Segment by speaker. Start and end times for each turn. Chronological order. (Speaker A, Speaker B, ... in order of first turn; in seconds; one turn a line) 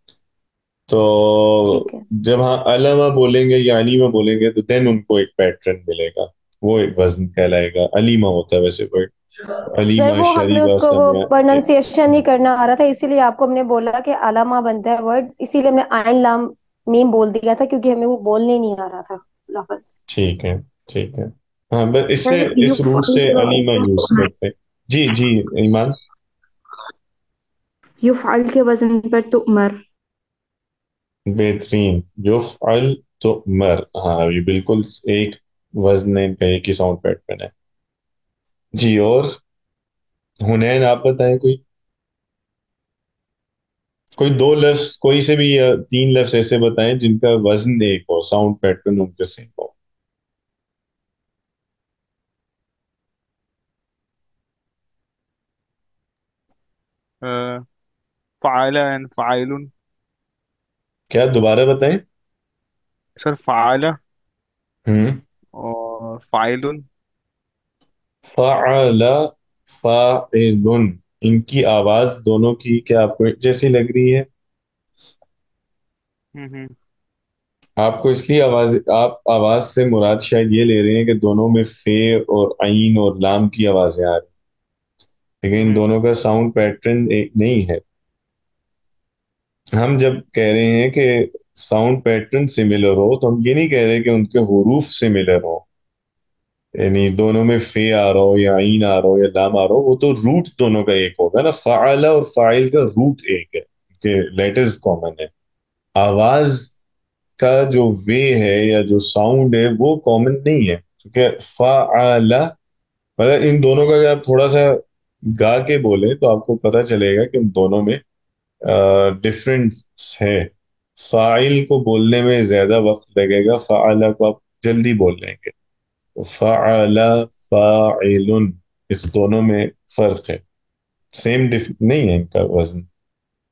Speaker A: 0.9-9.1
Speaker A: 9.7-11.6
Speaker B: 9.8-20.0
Speaker A: 20.1-26.0
Speaker C: 22.2-24.3
Speaker C: 28.0-29.8
Speaker A: 31.3-37.5
Speaker A: 38.7-39.4
Speaker A: 40.4-41.6
Speaker A: 44.2-49.7
Speaker D: 57.2-57.6
Speaker D: 58.4-59.7
Speaker A: 61.1-62.0
Speaker D: 63.2-63.9
Speaker A: 64.9-65.2
Speaker D: 65.6-66.8
Speaker A: 68.3-74.3
Speaker D: 76.3-76.7
Speaker A: 77.8-84.3
Speaker A: 85.4-87.8
Speaker D: 85.6-85.8
Speaker A: 89.7-95.7
Speaker A: 96.7-105.3
Speaker A: 106.0-106.8
Speaker A: 107.4-112.5
Speaker A: 113.2-118.0
Speaker A: 118.6-125.5
Speaker A: 126.2-130.4
Speaker A: 131.1-132.9